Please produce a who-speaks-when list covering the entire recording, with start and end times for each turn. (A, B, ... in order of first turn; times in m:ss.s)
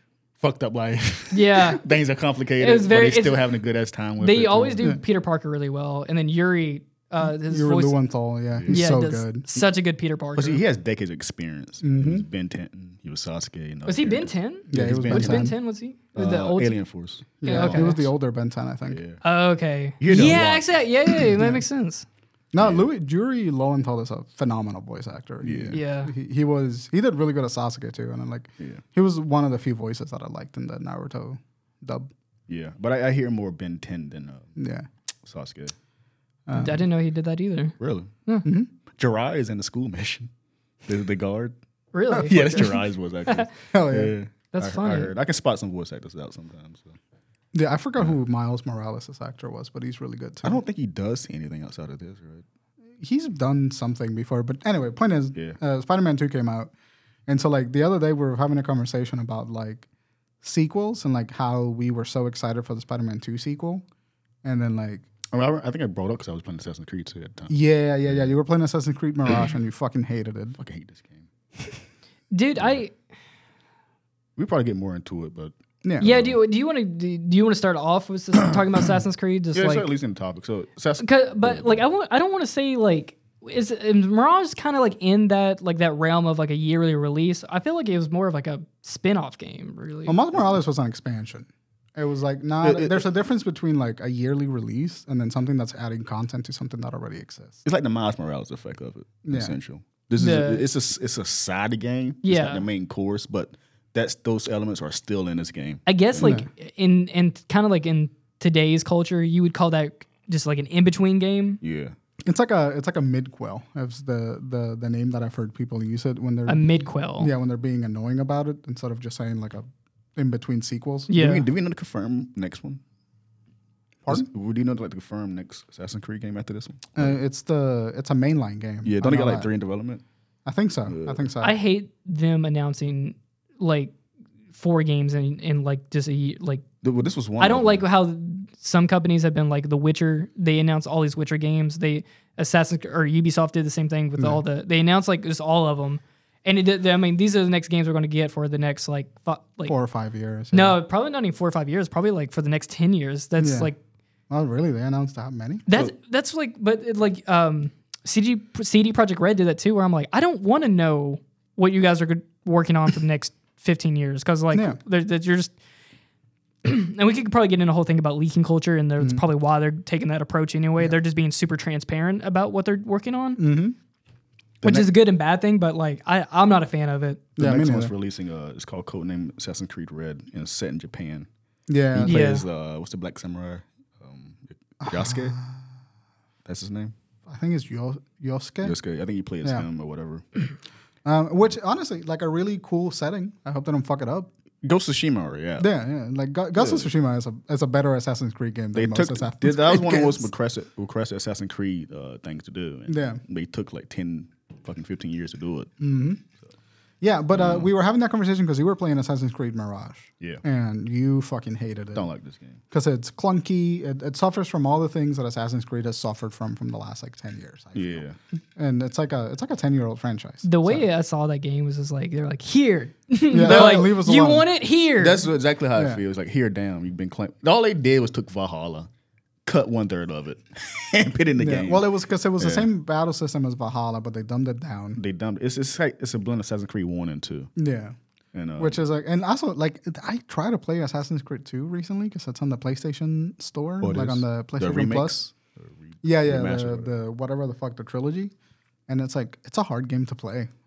0:00.4-0:04.8 A
0:01.3-0:01.8 B
0:02.6-0:03.5 B
0:04.2-0:08.0 B
0:07.2-0:09.4 C
0:08.5-0:08.9 A
0:08.7-0:10.6 B
0:10.4-0:15.5 A
0:11.8-0:12.2 C
0:13.8-0:16.8 B
0:14.7-0:15.5 C
0:16.1-0:18.0 A
0:17.4-0:19.0 C
0:17.4-0:18.1 B
0:18.9-0:19.2 A
0:19.2-0:22.0 B
0:20.0-0:21.3 A
0:21.4-0:21.6 C
0:22.5-0:32.1 C
0:22.6-0:22.8 A
0:25.4-0:25.8 A
0:25.7-0:26.1 B
0:32.5-0:34.5 A
0:34.6-0:34.9 C
0:35.2-0:35.7 A
0:36.4-0:36.8 C
0:36.5-0:38.4 B
0:37.8-0:38.1 A
0:38.4-0:38.7 C
0:39.0-0:40.3 A
0:40.9-0:41.5 A
0:41.9-0:43.4 B
0:42.1-0:47.0 A
0:42.1-0:42.6 C
0:43.7-0:44.2 C
0:44.5-0:45.1 B
0:47.5-0:50.6 C
0:50.4-0:52.4 A
0:53.0-0:56.7 C
0:57.3-0:59.8 C
1:00.4-1:03.8 C
1:04.4-1:05.0 C
1:05.3-1:07.5 A
1:07.5-1:10.6 C
1:08.1-1:08.3 A
1:10.6-1:11.3 A
1:12.3-1:12.9 B
1:14.4-1:16.3 A
1:15.8-1:16.2 C
1:16.0-1:19.8 B
1:19.5-1:21.8 A
1:21.0-1:30.2 B
1:30.1-1:37.6 C
1:32.6-1:33.0 A
1:37.6-1:46.4 A
1:39.2-1:39.6 C
1:40.2-1:40.6 B
1:42.2-1:42.6 B
1:45.8-1:51.6 B
1:46.2-1:46.5 C
1:51.6-1:51.9 A
1:52.2-1:56.6 C
1:56.5-1:57.3 B
1:57.2-1:59.6 C
2:00.2-2:01.1 C
2:01.1-2:01.4 B
2:01.1-2:02.8 A
2:04.1-2:07.1 A
2:07.0-2:09.5 C
2:08.8-2:10.0 A
2:10.4-2:11.6 C
2:10.9-2:11.2 A
2:11.4-2:13.9 B
2:14.5-2:16.6 B
2:16.8-2:17.8 A
2:17.4-2:29.7 B
2:29.7-2:30.8 C
2:30.5-2:33.8 B
2:33.4-2:33.7 C
2:34.3-2:35.7 C
2:35.7-2:45.5 B
2:44.5-2:44.8 C
2:46.6-2:53.4 B
2:49.0-2:49.2 C
2:53.4-2:53.8 C
2:54.6-2:57.2 B
2:57.4-2:57.9 C
2:57.4-3:01.3 A
3:01.7-3:02.4 C
3:01.9-3:05.4 A
3:02.0-3:02.4 B
3:04.8-3:05.6 C
3:06.4-3:06.9 A
3:07.3-3:08.8 C
3:08.6-3:10.2 A
3:11.0-3:14.3 C
3:14.6-3:15.7 A
3:15.6-3:20.3 C
3:16.6-3:16.9 A
3:18.7-3:25.7 A
3:22.9-3:23.2 C
3:25.8-3:26.2 C
3:27.0-3:32.1 C
3:27.3-3:27.7 A
3:31.9-3:32.6 A
3:32.7-3:38.0 C
3:37.7-3:38.2 A
3:38.6-3:40.8 C
3:40.4-3:45.2 B
3:43.3-3:44.4 C
3:43.4-3:43.9 A
3:45.0-3:48.9 A
3:45.8-3:46.0 C
3:49.4-3:52.7 A
3:51.4-3:55.0 C
3:55.0-3:57.5 A
3:57.6-3:57.9 C
3:58.3-3:58.8 A
3:58.6-4:05.2 C
4:03.8-4:06.9 A
4:06.0-4:08.3 C
4:08.9-4:10.5 C